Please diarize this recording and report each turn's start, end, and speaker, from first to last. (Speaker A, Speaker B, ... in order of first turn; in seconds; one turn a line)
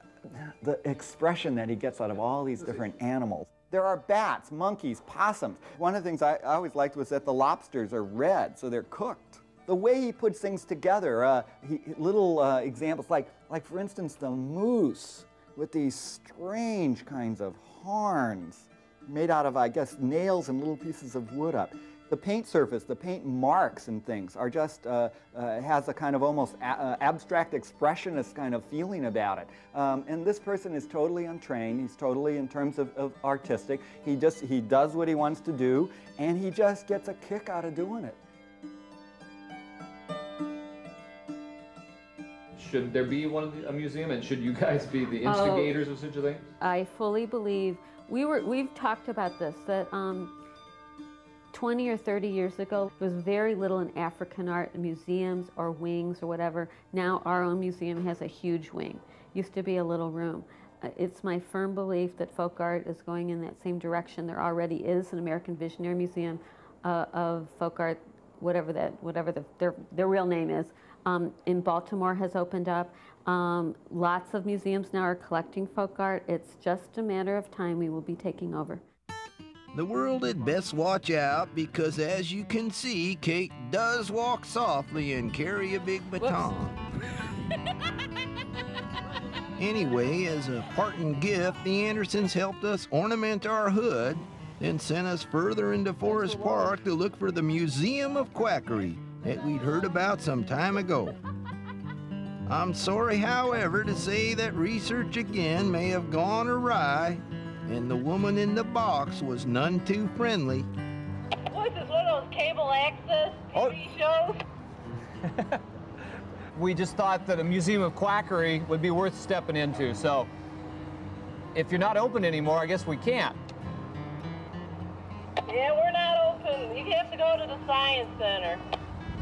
Speaker A: 0.3-38.2
Speaker B: 42.5-46.4
Speaker C: 45.2-45.7
Speaker C: 46.6-50.4
Speaker C: 51.5-78.8
Speaker D: 79.7-86.8
Speaker D: 89.6-101.2
Speaker D: 102.5-110.7
Speaker E: 111.5-114.4
Speaker F: 115.2-115.6
Speaker F: 116.5-120.3
Speaker F: 121.5-123.4
Speaker E: 125.5-128.6